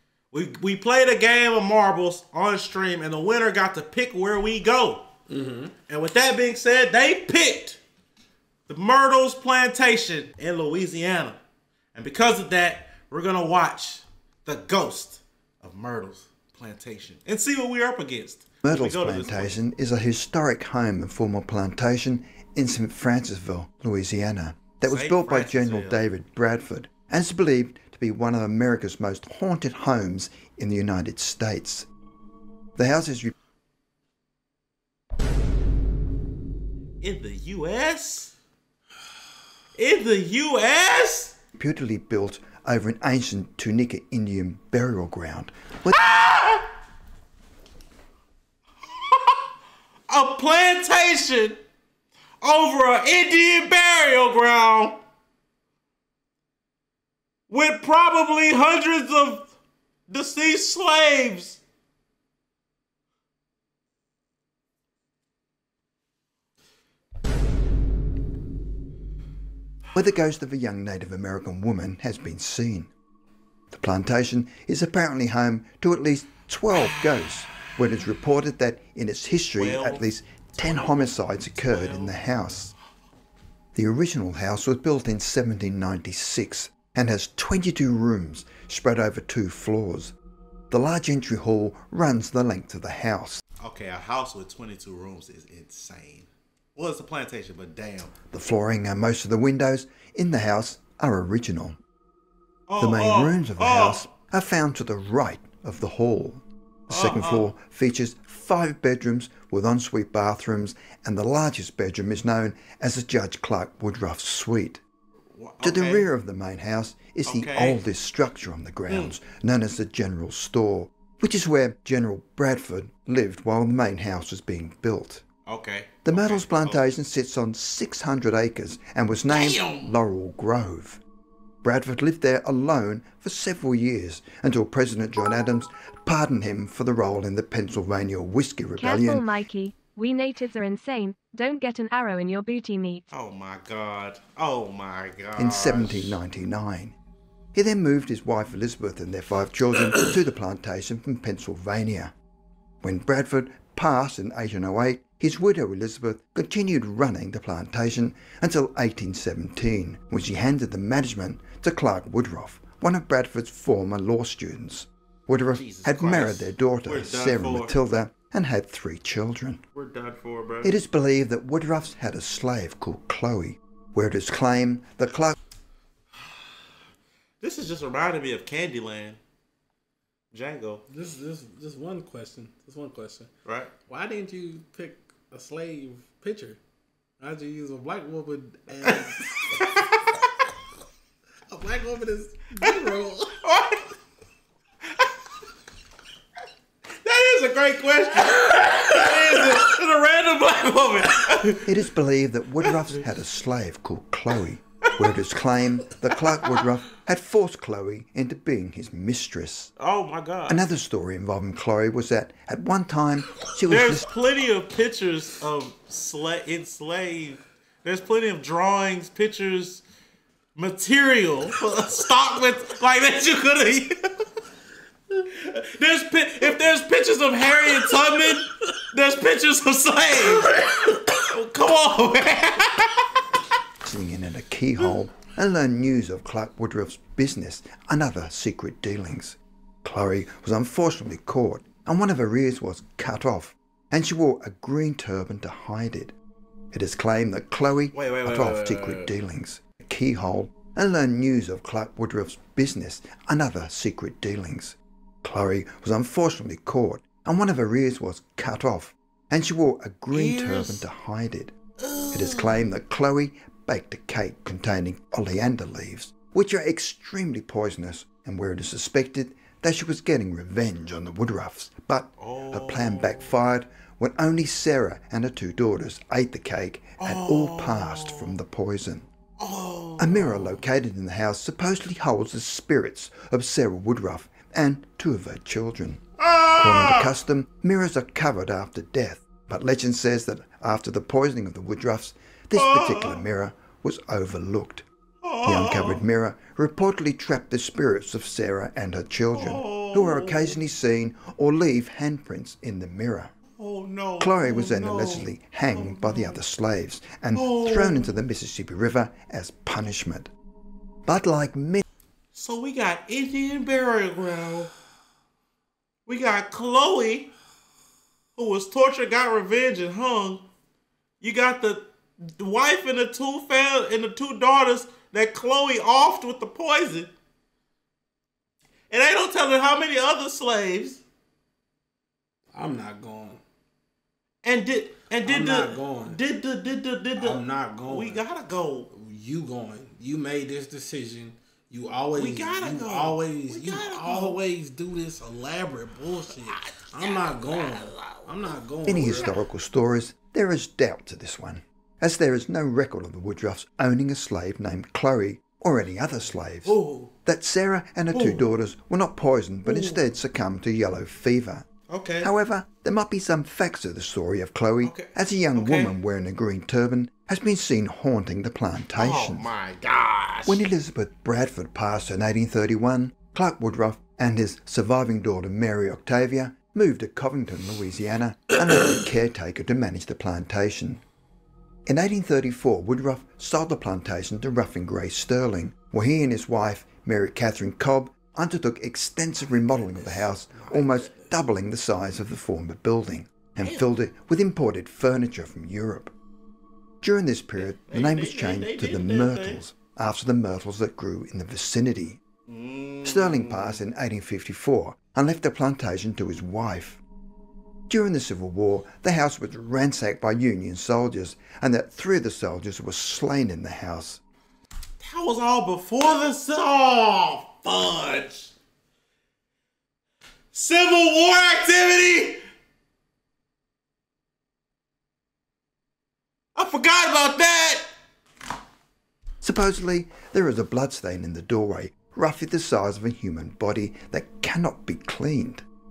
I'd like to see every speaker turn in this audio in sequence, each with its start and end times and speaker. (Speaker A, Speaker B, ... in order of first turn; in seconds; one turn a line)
Speaker A: 0.3-5.1
Speaker B: 5.3-5.7
Speaker A: 5.9-7.8
Speaker A: 8.7-11.4
Speaker A: 11.9-19.6
Speaker C: 18.6-31.9
Speaker A: 24.8-26.0
Speaker C: 32.8-33.3
Speaker A: 37.0-38.3
Speaker A: 39.8-41.4
Speaker C: 41.6-46.0
Speaker A: 45.9-46.7
Speaker A: 48.9-49.4
Speaker A: 50.1-51.6
Speaker A: 52.4-55.0
Speaker A: 57.5-59.5
Speaker A: 60.1-61.6
Speaker C: 69.9-72.9
Speaker C: 73.7-82.7
Speaker A: 76.7-77.1
Speaker A: 79.5-82.6
Speaker C: 83.7-90.1
Speaker C: 90.7-93.4
Speaker A: 93.6-98.1
Speaker C: 98.3-101.8
Speaker A: 102.7-104.1
Speaker C: 102.8-114.8
Speaker A: 106.9-107.5
Speaker A: 115.3-116.1
Speaker C: 115.6-125.2
Speaker A: 117.2-117.8
Speaker A: 118.9-119.1
Speaker A: 125.5-126.9
Speaker C: 126.0-131.0
Speaker A: 129.3-129.9
Speaker C: 131.6-139.3
Speaker D: 138.8-143.0
Speaker A: 143.1-146.2
Speaker C: 145.3-146.9
Speaker C: 147.5-152.1
Speaker C: 152.8-169.6
Speaker A: 165.5-167.8
Speaker A: 169.7-170.8
Speaker C: 170.6-175.3
Speaker A: 177.4-179.2
Speaker A: 180.3-180.8
Speaker B: 180.9-183.3
Speaker A: 183.4-183.7
Speaker B: 183.9-186.6
Speaker B: 187.2-189.3
Speaker A: 188.8-190.1
Speaker B: 191.5-193.3
Speaker A: 193.4-193.9
Speaker A: 197.0-201.8
Speaker C: 201.6-209.7
Speaker A: 202.6-203.0
Speaker A: 209.8-210.6
Speaker C: 210.5-214.1
Speaker A: 213.7-219.8
Speaker A: 220.5-224.1
Speaker A: 225.1-233.2
Speaker C: 233.8-246.1
Speaker C: 246.7-261.5
Speaker A: 247.9-249.1
Speaker A: 260.1-260.9
Speaker A: 261.8-262.6
Speaker C: 262.1-279.1
Speaker A: 272.2-273.4
Speaker A: 277.0-278.4
Speaker A: 279.4-280.6
Speaker C: 280.0-286.0
Speaker A: 286.2-287.1
Speaker C: 286.6-294.9
Speaker A: 292.5-293.2
Speaker A: 295.2-296.0
Speaker C: 295.4-303.3
Speaker A: 299.3-300.6
Speaker A: 303.6-306.4
Speaker C: 304.2-310.3
Speaker A: 307.3-308.1
Speaker C: 311.1-311.8
Speaker A: 312.3-314.7
Speaker A: 316.1-317.3
Speaker A: 318.3-320.4
Speaker A: 321.2-327.1
Speaker A: 328.9-331.0
Speaker B: 332.5-333.4
Speaker A: 334.4-338.9
Speaker B: 335.2-336.2
Speaker B: 337.1-338.2
Speaker B: 338.9-349.3
Speaker A: 342.1-344.4
Speaker A: 346.3-349.3
Speaker C: 348.9-361.7
Speaker A: 356.6-357.1
Speaker A: 358.1-358.5
Speaker A: 359.6-360.0
Speaker A: 361.9-362.3
Speaker C: 362.2-369.5
Speaker A: 364.8-365.9
Speaker A: 368.9-370.7
Speaker C: 370.4-381.0
Speaker C: 381.9-396.1
Speaker A: 389.8-391.3
Speaker A: 393.6-393.9
Speaker C: 397.0-402.2
Speaker A: 397.6-399.6
Speaker A: 402.5-403.8
Speaker C: 403.0-407.0
Speaker C: 407.9-414.2
Speaker A: 415.0-418.5
Speaker A: 420.5-422.4
Speaker A: 426.6-427.8
Speaker C: 429.4-435.6